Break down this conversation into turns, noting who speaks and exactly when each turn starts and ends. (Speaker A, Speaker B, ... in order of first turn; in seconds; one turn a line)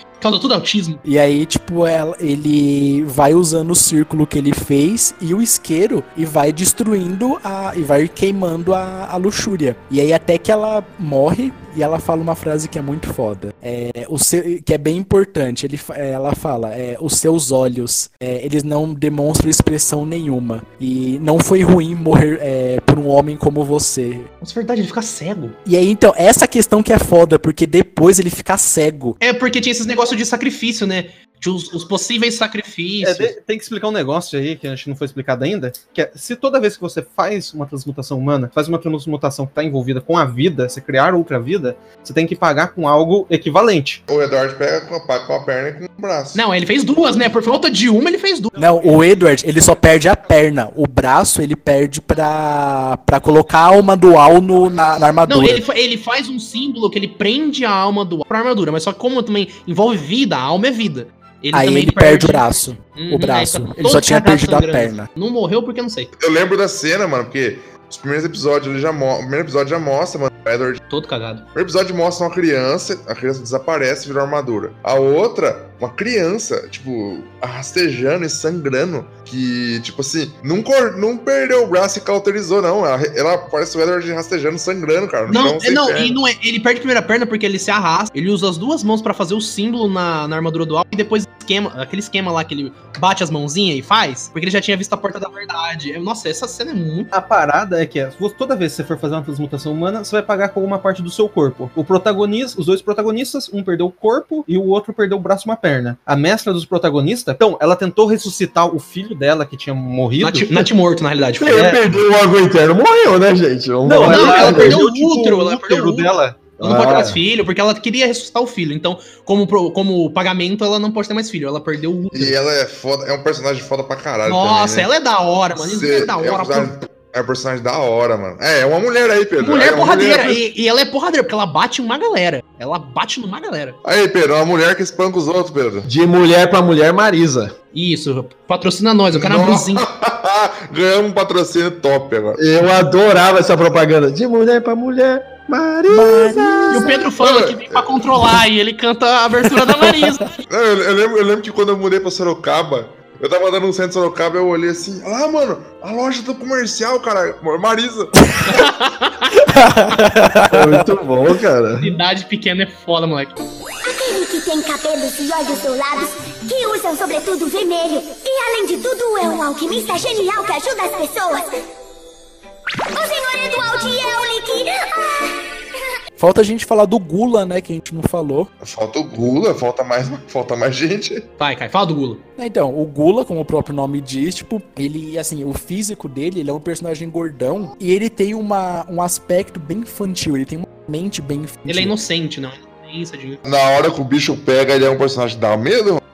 Speaker A: 0.2-1.0
Speaker B: 1.0-24.3
Speaker A: 24.4-25.6
Speaker B: 25.6-29.1
Speaker A: 29.2-33.3
Speaker C: 33.0-44.0
Speaker D: 44.1-46.4
Speaker A: 46.3-48.5
Speaker B: 48.6-55.6
Speaker A: 55.3-66.1
Speaker B: 61.5-65.1
Speaker D: 66.2-70.8
Speaker A: 70.9-71.5
Speaker D: 71.5-86.2
Speaker A: 85.3-97.1
Speaker C: 97.1-110.5
Speaker A: 110.2-111.8
Speaker E: 111.4-114.8
Speaker C: 111.5-111.8
Speaker C: 113.8-117.1
Speaker A: 114.0-122.3
Speaker E: 116.6-117.2
Speaker D: 122.1-124.9
Speaker A: 124.2-126.7
Speaker D: 125.5-130.4
Speaker A: 129.4-133.8
Speaker D: 133.8-135.9
Speaker E: 135.8-137.5
Speaker A: 137.7-139.8
Speaker D: 139.1-142.4
Speaker E: 142.4-146.9
Speaker B: 145.9-146.9
Speaker A: 146.7-150.4
Speaker D: 147.2-148.1
Speaker D: 150.5-158.3
Speaker A: 158.5-159.3
Speaker B: 159.6-160.8
Speaker E: 160.4-161.9
Speaker A: 161.8-163.3
Speaker F: 163.8-171.5
Speaker F: 172.9-175.4
Speaker B: 176.2-178.5
Speaker D: 178.6-181.3
Speaker A: 181.4-182.2
Speaker B: 182.4-191.9
Speaker A: 191.7-193.4
Speaker D: 193.4-196.0